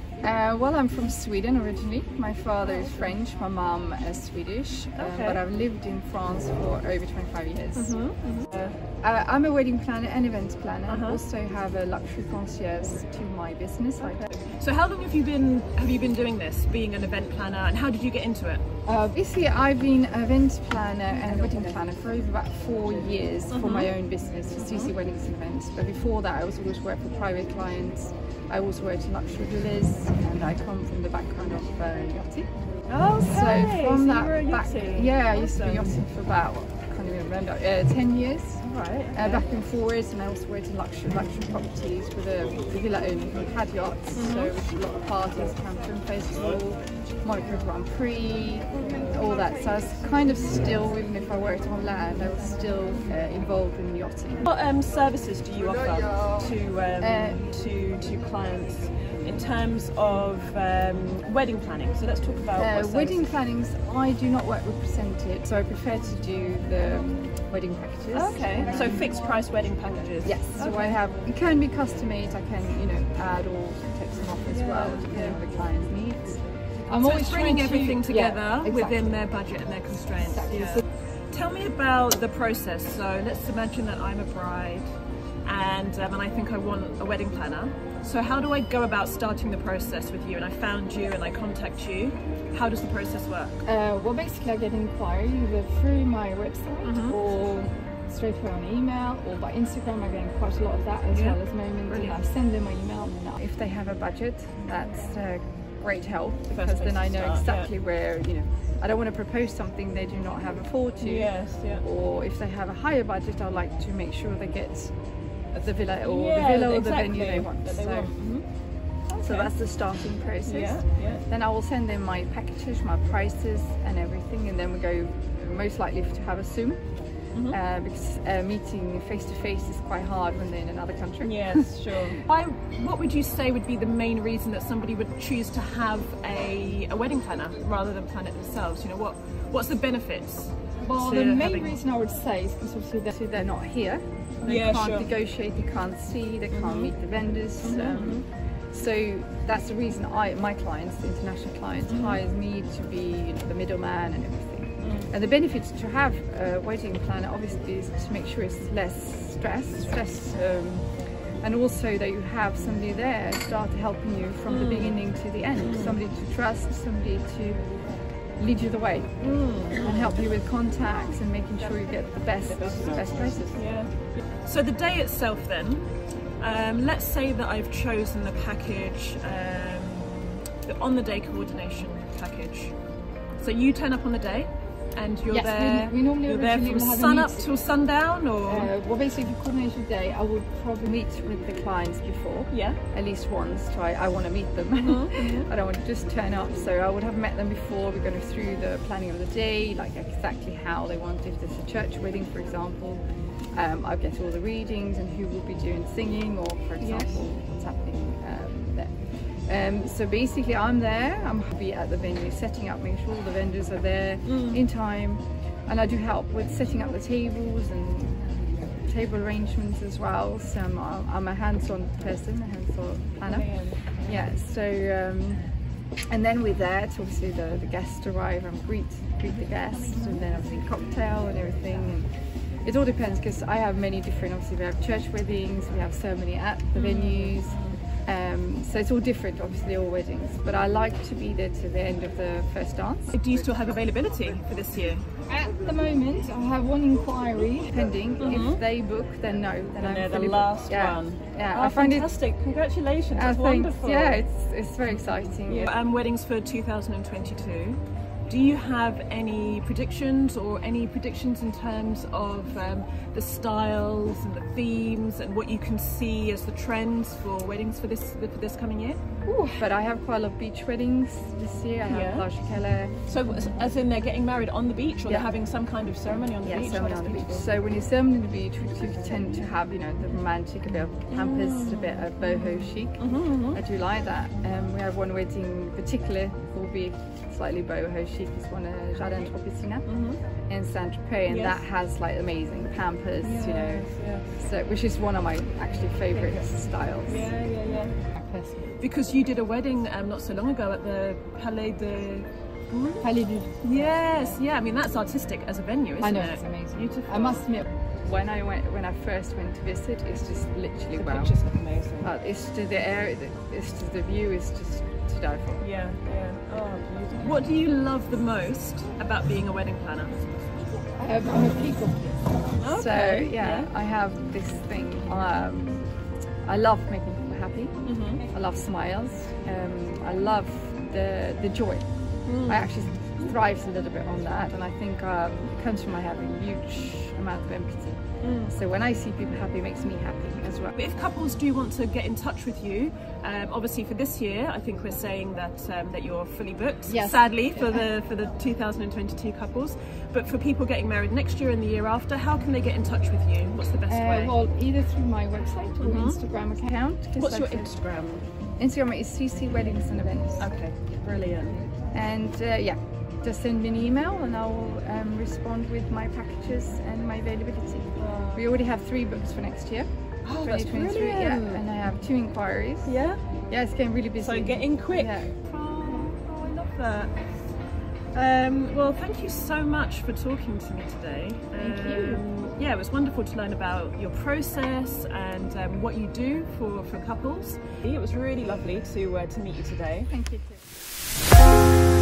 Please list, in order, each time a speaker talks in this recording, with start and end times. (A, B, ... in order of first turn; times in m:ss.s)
0:00.2-0:07.9 A
0:05.0-0:05.4 B
0:07.8-0:08.7 B
0:09.0-0:14.2 A
0:10.9-0:11.2 B
0:14.0-0:18.6 B
0:18.8-0:32.5 A
0:23.5-0:23.9 B
0:24.6-0:24.9 B
0:32.9-0:35.9 B
0:33.2-0:54.5 A
0:38.6-0:39.4 B
0:44.1-0:44.5 B
0:54.4-1:03.2 B
0:57.0-0:57.4 A
1:02.6-1:09.1 A
1:08.1-1:11.0 B
1:10.2-1:19.1 A
1:14.5-1:15.4 B
1:16.9-1:24.9 B
1:20.2-1:20.8 A
1:25.4-1:33.6 B
1:33.6-1:54.9 A
1:36.8-1:37.2 B
1:41.1-1:42.2 B
1:46.5-1:47.7 B
1:51.0-1:51.8 B
1:55.5-1:58.1 A
1:56.0-1:58.4 B
1:59.1-1:59.5 B
1:59.1-2:06.8 A
2:00.4-2:01.2 B
2:07.3-2:07.6 B
2:07.5-2:12.1 A
2:11.2-2:21.8 B
2:20.8-2:40.9 A
2:24.4-2:25.1 B
2:26.5-2:26.9 B
2:27.6-2:28.2 B
2:31.9-2:32.2 B
2:34.8-2:35.1 B
2:41.4-2:47.7 A
2:44.5-2:45.0 B
2:45.6-2:46.0 B
2:48.4-2:49.2 A
2:49.2-2:50.1 B
2:49.8-2:53.6 A
2:53.6-2:53.9 B
2:54.4-2:55.8 B
2:56.4-3:02.7 B
3:03.4-3:08.7 B
3:05.3-3:07.5 A
3:08.5-3:23.0 A
3:12.5-3:12.8 B
3:14.8-3:15.5 B
3:23.5-3:38.2 A
3:26.8-3:27.2 B
3:34.2-3:34.6 B
3:38.9-3:45.4 A
3:43.2-3:44.1 B
3:46.1-4:03.2 A
3:49.9-3:50.2 B
3:56.7-3:57.8 B
4:03.1-4:05.0 B
4:05.3-4:12.1 A
4:08.2-4:08.6 B
4:09.8-4:14.2 B
4:13.1-4:15.7 A
4:15.4-4:29.6 B
4:29.4-4:32.9 A
4:31.9-4:32.3 B
4:33.0-4:37.6 B
4:36.4-4:49.9 A
4:41.1-4:42.0 B
4:43.0-4:43.6 B
4:49.9-4:50.2 B
4:50.5-4:57.3 A
4:51.3-4:51.6 B
4:53.2-4:54.2 B
4:56.1-4:56.5 B
4:57.1-4:58.0 B
4:58.1-4:58.8 A
4:58.8-5:03.1 B
5:03.0-5:04.4 A
5:03.6-5:07.5 B
5:06.0-5:11.3 A
5:11.0-5:12.1 B
5:12.0-5:15.6 A
5:15.6-5:20.2 B
5:21.0-5:25.8 A
5:22.6-5:23.7 B
5:26.4-5:31.8 A
5:27.8-5:28.2 B
5:32.3-5:32.7 B
5:32.4-5:40.8 A
5:38.2-5:38.5 B
5:40.8-5:54.3 B
5:46.9-5:47.9 A
5:53.9-5:57.7 A
5:55.8-5:56.2 B
5:57.2-5:58.3 B
5:58.6-6:00.5 A
6:00.4-6:01.6 B
6:01.9-6:09.9 A
6:08.0-6:08.5 B
6:10.2-6:11.6 B
6:10.4-6:13.0 A
6:12.8-6:13.2 B
6:13.5-6:15.3 A
6:14.2-6:17.1 B
6:18.1-6:30.1 B
6:21.6-6:22.2 A
6:30.1-6:30.6 A